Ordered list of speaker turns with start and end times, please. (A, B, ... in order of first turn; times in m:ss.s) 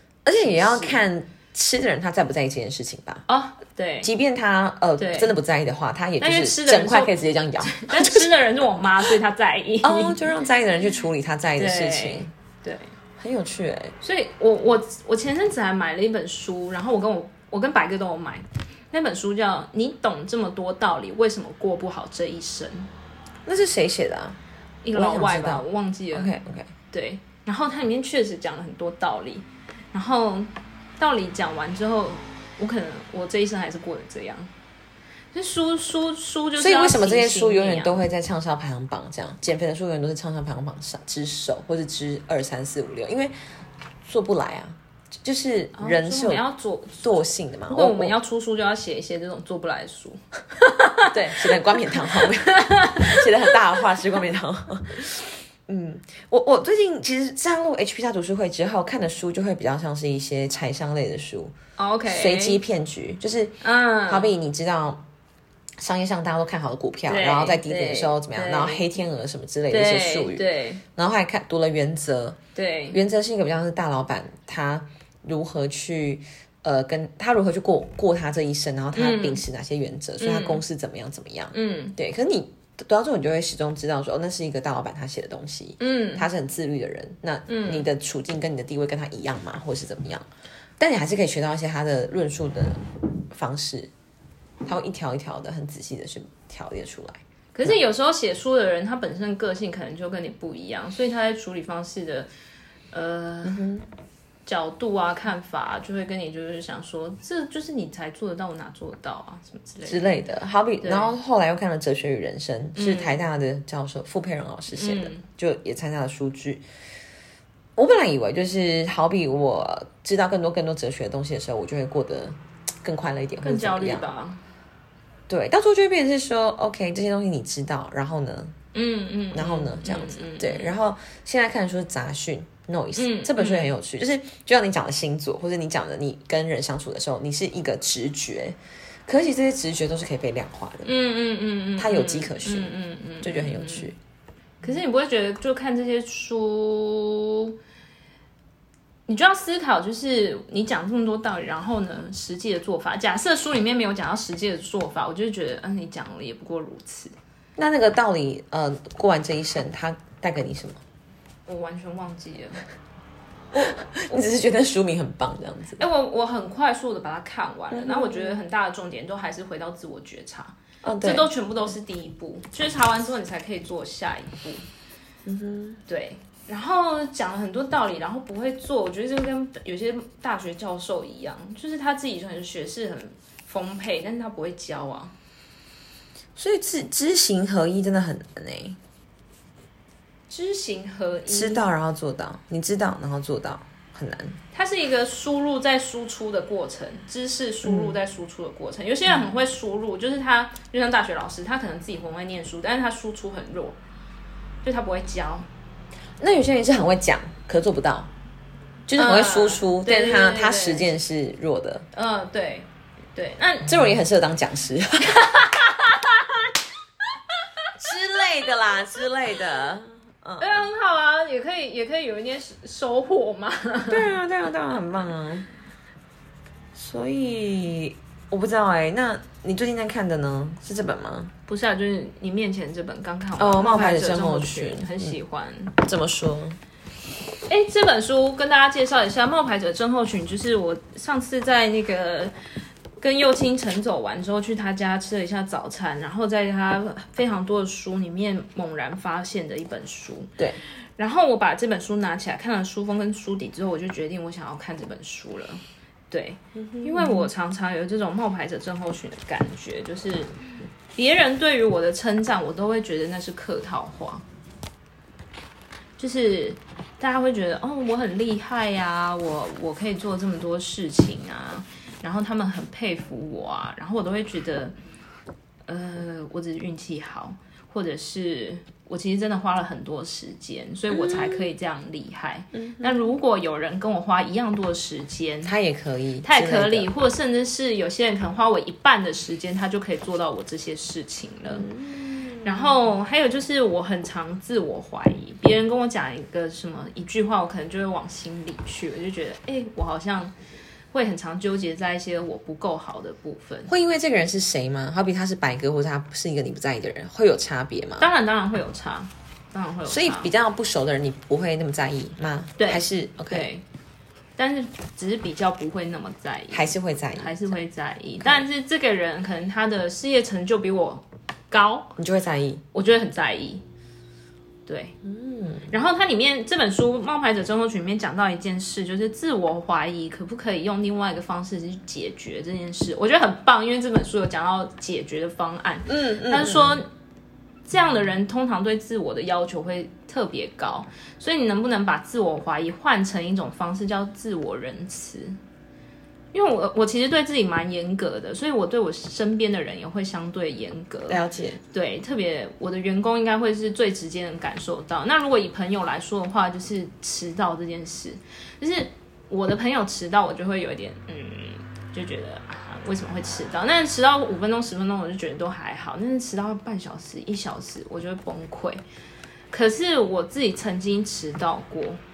0:00.2-0:03.2 A
0:00.4-0:01.0 B
0:03.3-0:04.1 B
0:04.0-0:08.3 A
0:05.0-0:05.3 B
0:06.2-0:10.3 B
0:09.8-0:12.3 A
0:11.6-0:12.9 B
0:13.2-0:13.9 A
0:14.0-0:22.9 B
0:23.4-0:24.4 A
0:24.8-0:26.3 B
0:24.9-0:26.7 A
0:26.9-0:34.5 B
0:35.3-0:38.0 B
0:36.6-0:43.3 A
0:44.0-0:46.4 A
0:45.8-0:47.0 B
0:47.0-0:48.1 A
0:47.7-0:51.1 B
0:51.1-1:01.5 A
0:51.6-0:53.3 B
1:01.8-1:02.6 B
1:02.1-1:05.0 A
1:03.6-1:04.3 B
1:05.8-1:12.4 A
1:07.1-1:08.8 B
1:09.7-1:10.8 B
1:12.5-1:13.0 B
1:12.9-1:30.2 A
1:18.9-1:19.4 B
1:20.2-1:20.6 B
1:21.5-1:22.0 B
1:25.8-1:26.3 B
1:27.5-1:27.9 B
1:30.8-1:33.9 A
1:34.6-1:37.8 A
1:37.5-1:42.3 B
1:42.9-1:43.6 B
1:43.4-1:43.9 A
1:44.4-1:50.1 B
1:49.8-1:56.6 A
1:50.8-1:51.1 B
1:52.8-1:53.2 B
1:54.7-1:55.2 B
1:57.8-2:04.1 A
2:03.4-2:04.4 B
2:05.3-2:08.5 A
2:08.7-2:10.8 B
2:09.3-2:20.9 A
2:12.9-2:13.7 B
2:20.8-2:23.9 B
2:21.8-2:24.0 A
2:24.6-2:27.6 B
2:29.1-2:37.1 B
2:37.6-2:40.8 A
2:41.5-2:42.6 B
2:43.5-2:44.2 B
2:43.6-2:45.8 A
2:45.8-2:54.6 B
2:47.7-2:48.4 A
2:50.8-2:51.3 A
2:55.2-2:55.8 A
2:55.9-3:05.1 B
3:06.4-3:08.8 A
3:10.3-3:11.7 B
3:11.3-3:14.4 A
3:14.5-3:23.8 B
3:17.6-3:18.0 A
3:24.6-3:25.5 B
3:26.2-3:28.1 A
3:28.9-3:31.8 A
3:29.0-3:30.9 B
3:31.9-3:33.7 B
3:33.6-3:35.2 A
3:35.0-3:36.5 B
3:37.8-3:40.7 A
3:40.4-3:44.1 B
3:43.9-3:45.5 A
3:46.7-3:51.3 A
3:51.5-3:55.8 B
3:53.4-3:55.2 A
3:55.8-3:56.6 A
3:57.5-4:02.3 B
4:03.0-4:10.3 B
4:11.0-4:20.3 B
4:16.6-4:17.3 A
4:20.9-4:24.2 B
4:26.0-4:34.8 B
4:35.7-4:45.5 B
4:40.9-4:41.5 A
4:42.5-4:43.0 A
4:45.4-4:46.9 A
4:46.2-4:51.7 B
4:51.5-4:52.7 A
4:52.4-5:00.3 B
5:00.9-5:03.7 B
5:03.7-5:08.1 A
5:08.0-5:10.3 B
5:09.8-5:13.5 A
5:12.6-5:13.6 B
5:14.4-5:21.9 B
5:16.5-5:17.5 A
5:22.0-5:22.6 A
5:22.7-5:23.6 B
5:24.6-5:24.9 B
5:25.0-5:25.7 A
5:25.7-5:36.9 B
5:35.9-5:36.8 A
5:37.6-5:45.4 B
5:46.3-5:51.2 B
5:51.1-5:51.6 A
5:51.7-6:08.8 B
6:09.5-6:12.0 B